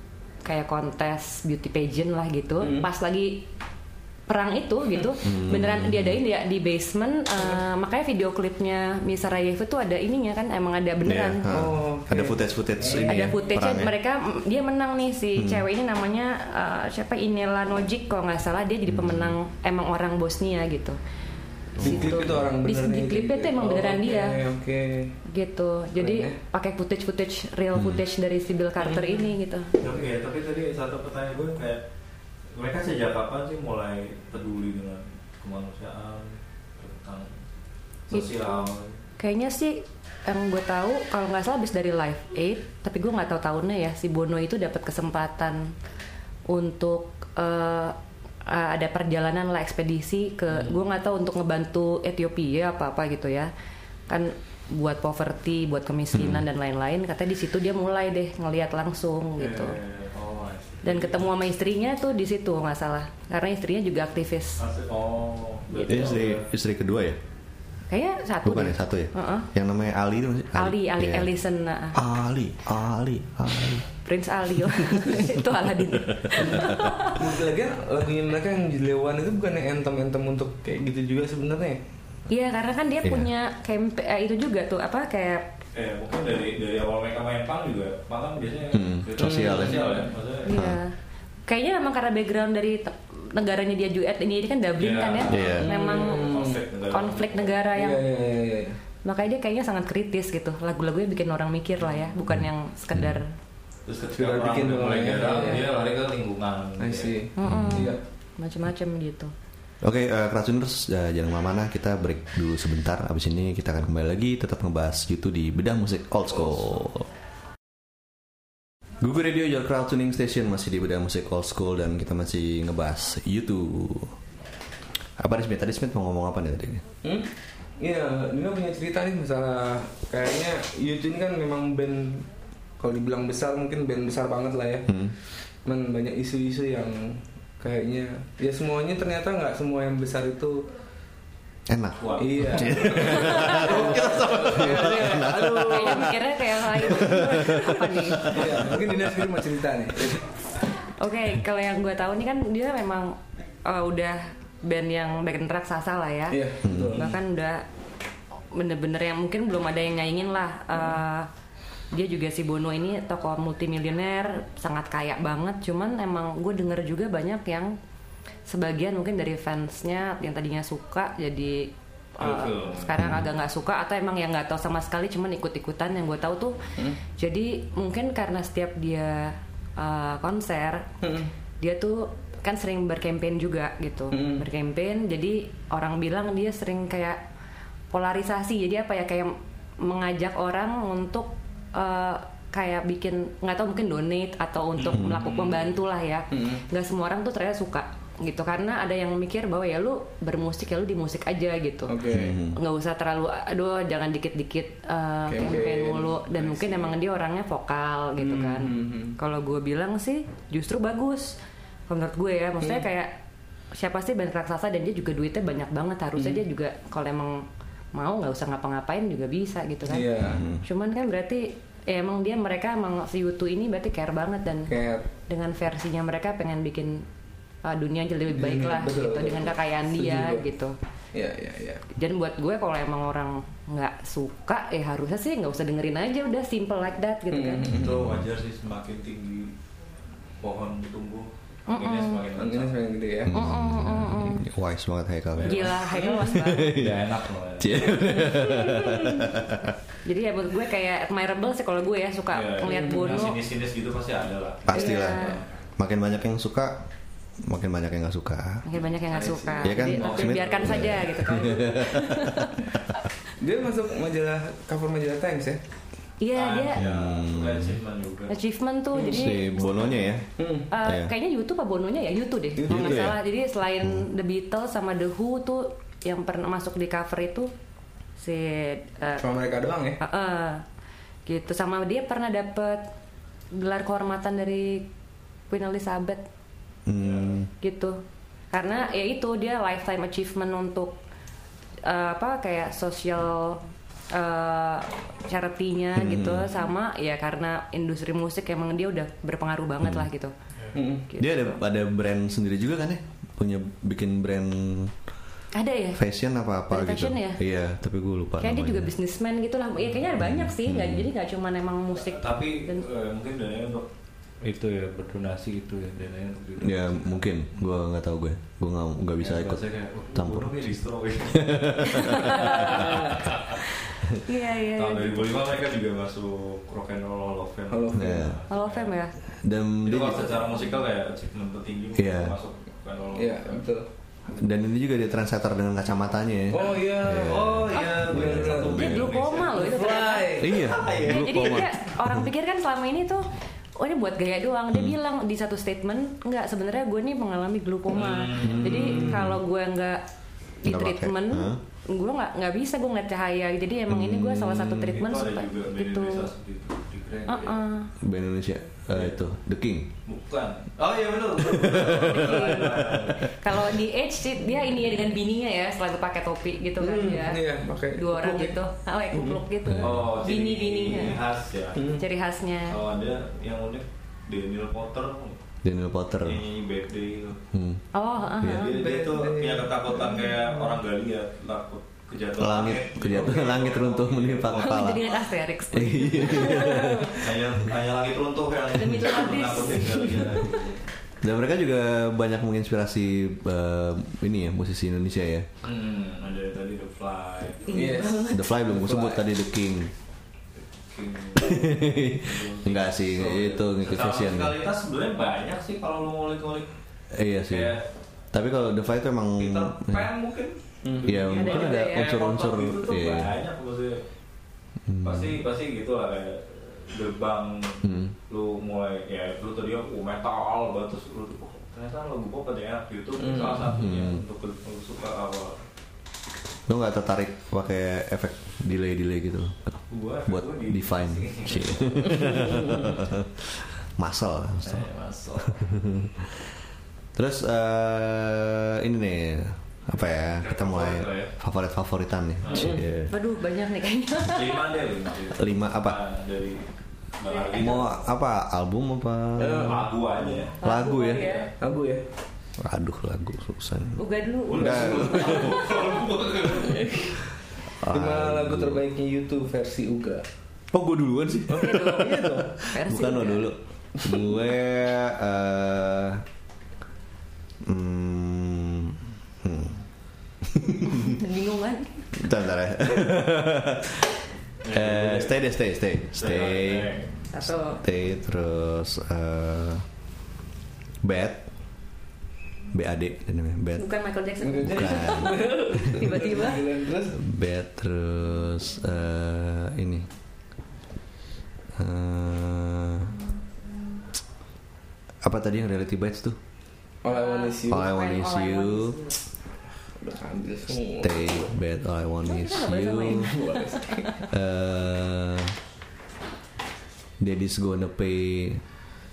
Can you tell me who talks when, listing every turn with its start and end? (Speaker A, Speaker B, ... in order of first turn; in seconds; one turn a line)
Speaker A: 0.4-3.5
Speaker B: 2.6-2.9
Speaker A: 4.3-11.5
Speaker C: 5.2-6.2
Speaker C: 11.0-13.9
Speaker B: 11.5-13.3
Speaker A: 13.0-21.0
Speaker C: 15.4-15.7
Speaker C: 18.9-19.4
Speaker C: 21.8-22.5
Speaker A: 21.8-24.4
Speaker B: 21.8-25.2
Speaker A: 25.2-29.8
Speaker B: 25.9-26.4
Speaker C: 27.8-28.0
Speaker D: 29.8-31.8
Speaker D: 32.5-37.3
Speaker D: 38.1-39.0
Speaker A: 39.2-45.7
Speaker A: 46.5-53.5
Speaker A: 54.1-59.8
Speaker C: 56.1-56.4
Speaker D: 59.4-61.2
Speaker A: 60.8-64.6
Speaker D: 64.6-66.5
Speaker A: 65.7-66.0
Speaker C: 65.8-67.2
Speaker A: 67.9-69.5
Speaker C: 68.4-71.3
Speaker A: 70.5-72.0
Speaker C: 71.9-73.9
Speaker A: 74.0-77.3
Speaker C: 74.9-75.2
Speaker C: 76.2-76.9
Speaker B: 76.4-81.8
Speaker A: 82.3-85.5
Speaker D: 85.7-90.6
Speaker C: 88.7-89.9
Speaker B: 89.2-90.1
Speaker A: 90.5-90.9
Speaker C: 90.5-90.8
Speaker A: 91.5-96.4
Speaker D: 94.8-97.6
Speaker C: 95.3-95.7
Speaker B: 95.6-96.6
Speaker A: 96.9-98.0
Speaker B: 97.7-98.8
Speaker A: 99.0-103.3
Speaker D: 103.9-107.2
Speaker B: 104.1-105.8
Speaker B: 106.8-108.0
Speaker A: 107.4-109.3
Speaker C: 107.5-107.9
Speaker C: 109.8-117.1
Speaker C: 119.0-124.2
Speaker C: 125.2-126.8
Speaker B: 127.0-132.3
Speaker B: 132.8-134.9
Speaker C: 134.9-135.1
Speaker B: 135.7-140.7
Speaker C: 141.7-146.0
Speaker D: 142.0-144.6
Speaker B: 142.2-146.3
Speaker A: 143.0-148.7
Speaker C: 146.8-149.2
Speaker B: 146.8-147.5
Speaker B: 148.2-150.3
Speaker A: 150.8-157.7
Speaker B: 156.3-157.2
Speaker C: 156.6-157.0
Speaker A: 158.5-161.3
Speaker A: 161.9-167.8
Speaker A: 168.5-180.9
Speaker D: 172.2-173.0
Speaker C: 173.0-173.3
Speaker B: 181.0-181.3
Speaker A: 181.6-187.2
Speaker B: 184.1-184.5
Speaker A: 187.9-213.2
Speaker D: 194.8-195.8
Speaker C: 194.9-195.3
Speaker B: 196.3-196.6
Speaker B: 201.9-202.4
Speaker C: 202.1-202.6
Speaker B: 205.3-206.9
Speaker B: 208.2-209.2
Speaker A: 213.7-224.7
Speaker B: 216.2-216.4
Speaker B: 219.9-220.5
Speaker C: 220.3-220.6
Speaker B: 224.7-225.1
Speaker A: 225.3-227.1
Speaker A: 227.6-230.8
Speaker B: 228.3-230.4
Speaker B: 231.1-231.8
Speaker A: 231.9-237.7
Speaker B: 237.3-237.9
Speaker D: 237.7-239.5
Speaker C: 237.7-238.2
Speaker D: 240.4-242.8
Speaker A: 241.7-242.2
Speaker B: 242.3-243.4
Speaker C: 243.2-247.1
Speaker A: 243.3-244.4
Speaker D: 245.4-245.7
Speaker A: 245.4-246.8
Speaker B: 245.9-246.3
Speaker D: 246.8-247.9
Speaker C: 247.6-249.7
Speaker A: 248.1-249.4
Speaker A: 250.1-253.4
Speaker D: 252.3-255.6
Speaker B: 252.7-253.3
Speaker C: 254.7-256.8
Speaker A: 254.7-255.4
Speaker C: 257.4-258.7
Speaker A: 258.6-262.8
Speaker B: 259.1-259.9
Speaker C: 259.6-262.6
Speaker D: 259.9-261.0
Speaker B: 263.4-265.6
Speaker A: 266.2-266.8
Speaker D: 266.3-268.3
Speaker C: 266.8-267.8
Speaker A: 268.3-270.1
Speaker B: 268.9-269.3
Speaker C: 269.0-271.1
Speaker B: 270.4-270.7
Speaker A: 270.7-277.5
Speaker B: 272.6-273.2
Speaker C: 272.7-273.2
Speaker A: 278.2-279.2
Speaker B: 279.2-280.0
Speaker A: 280.0-280.6
Speaker A: 281.3-282.9
Speaker A: 283.5-284.9
Speaker A: 285.5-286.2
Speaker C: 286.9-287.5
Speaker D: 287.0-287.3
Speaker A: 287.6-288.0
Speaker A: 288.5-291.0
Speaker A: 291.8-300.3
Speaker C: 295.9-296.5
Speaker B: 300.7-301.1
Speaker A: 301.1-301.6
Speaker C: 301.2-304.9
Speaker A: 305.5-306.0
Speaker C: 306.0-308.9
Speaker A: 306.7-307.4
Speaker A: 308.4-312.9
Speaker C: 310.2-311.1
Speaker D: 311.9-313.9
Speaker D: 314.4-317.3
Speaker C: 316.6-320.7
Speaker D: 319.2-323.6
Speaker C: 321.3-323.0
Speaker A: 321.8-325.4
Speaker B: 322.6-323.3
Speaker D: 324.7-329.0
Speaker B: 327.7-328.3
Speaker C: 327.9-328.4
Speaker A: 328.5-329.1
Speaker C: 329.4-330.5
Speaker D: 329.9-333.6
Speaker C: 332.0-332.4
Speaker B: 333.1-333.9
Speaker C: 334.3-339.1
Speaker B: 336.5-340.8
Speaker D: 336.6-339.7
Speaker A: 337.7-350.0
Speaker C: 340.4-342.3
Speaker D: 340.6-341.7
Speaker D: 347.9-349.1
Speaker C: 348.4-349.4
Speaker B: 348.7-349.3
Speaker A: 350.6-356.3
Speaker C: 350.6-351.6
Speaker C: 353.9-354.9
Speaker D: 354.9-357.6
Speaker A: 357.3-357.9
Speaker C: 358.0-359.9
Speaker D: 358.9-359.2
Speaker D: 360.1-363.3
Speaker C: 361.4-363.5
Speaker A: 361.9-371.2
Speaker B: 366.8-368.6
Speaker B: 369.1-369.4
Speaker C: 369.6-370.1
Speaker D: 369.8-371.9
Speaker B: 371.8-372.1
Speaker A: 371.9-372.8
Speaker D: 372.7-375.4
Speaker C: 375.6-376.4
Speaker D: 376.2-377.4
Speaker C: 377.5-377.8
Speaker A: 377.9-378.8
Speaker C: 378.4-378.6
Speaker D: 378.4-385.1
Speaker B: 378.6-380.8
Speaker C: 382.4-387.7
Speaker A: 384.6-387.1
Speaker D: 386.1-390.8
Speaker B: 386.7-387.1
Speaker A: 388.8-390.6
Speaker C: 391.2-395.5
Speaker D: 395.6-397.8
Speaker A: 397.7-398.4
Speaker B: 397.7-399.2
Speaker C: 398.3-399.9
Speaker D: 400.9-406.7
Speaker C: 401.4-404.6
Speaker C: 407.1-407.8
Speaker D: 407.5-407.9
Speaker C: 408.3-410.1
Speaker D: 409.4-414.0
Speaker B: 410.8-411.1
Speaker C: 411.0-413.3
Speaker A: 411.3-412.1
Speaker C: 414.9-415.4
Speaker D: 415.0-425.6
Speaker C: 417.8-418.1
Speaker B: 423.2-423.6
Speaker C: 423.7-424.2
Speaker C: 426.7-434.9
Speaker D: 429.9-432.4
Speaker B: 432.2-432.9
Speaker D: 434.6-435.8
Speaker C: 435.4-436.3
Speaker C: 437.1-443.1
Speaker D: 440.3-441.3
Speaker D: 442.4-442.8
Speaker B: 442.5-442.9
Speaker A: 443.1-444.7
Speaker D: 444.2-447.9
Speaker C: 445.4-446.0
Speaker A: 447.3-447.9
Speaker C: 447.6-449.9
Speaker B: 449.4-449.9
Speaker D: 449.5-450.6
Speaker C: 450.6-451.3
Speaker A: 450.6-451.5
Speaker D: 451.2-451.5
Speaker B: 451.6-452.0
Speaker C: 452.6-455.7
Speaker A: 454.0-455.7
Speaker D: 454.5-457.2
Speaker B: 456.6-457.1
Speaker C: 457.8-458.8
Speaker B: 457.8-460.2
Speaker C: 460.7-466.2
Speaker B: 461.5-462.5
Speaker A: 461.5-463.5
Speaker C: 467.6-469.8
Speaker C: 470.4-471.2
Speaker A: 470.9-472.1
Speaker C: 472.1-474.1
Speaker D: 474.6-475.4
Speaker C: 474.7-479.9
Speaker D: 476.2-477.1
Speaker A: 477.3-477.8
Speaker C: 481.0-481.4
Speaker C: 482.7-483.9
Speaker A: 483.8-486.8
Speaker B: 484.4-487.2
Speaker C: 484.6-486.1
Speaker C: 487.1-490.1
Speaker C: 491.8-493.2
Speaker C: 495.2-496.4
Speaker B: 497.0-497.9
Speaker A: 497.1-499.2
Speaker C: 497.7-499.0
Speaker B: 500.0-501.5
Speaker C: 501.0-503.3
Speaker A: 502.2-504.2
Speaker B: 503.1-504.2
Speaker C: 504.3-505.6
Speaker C: 507.2-508.6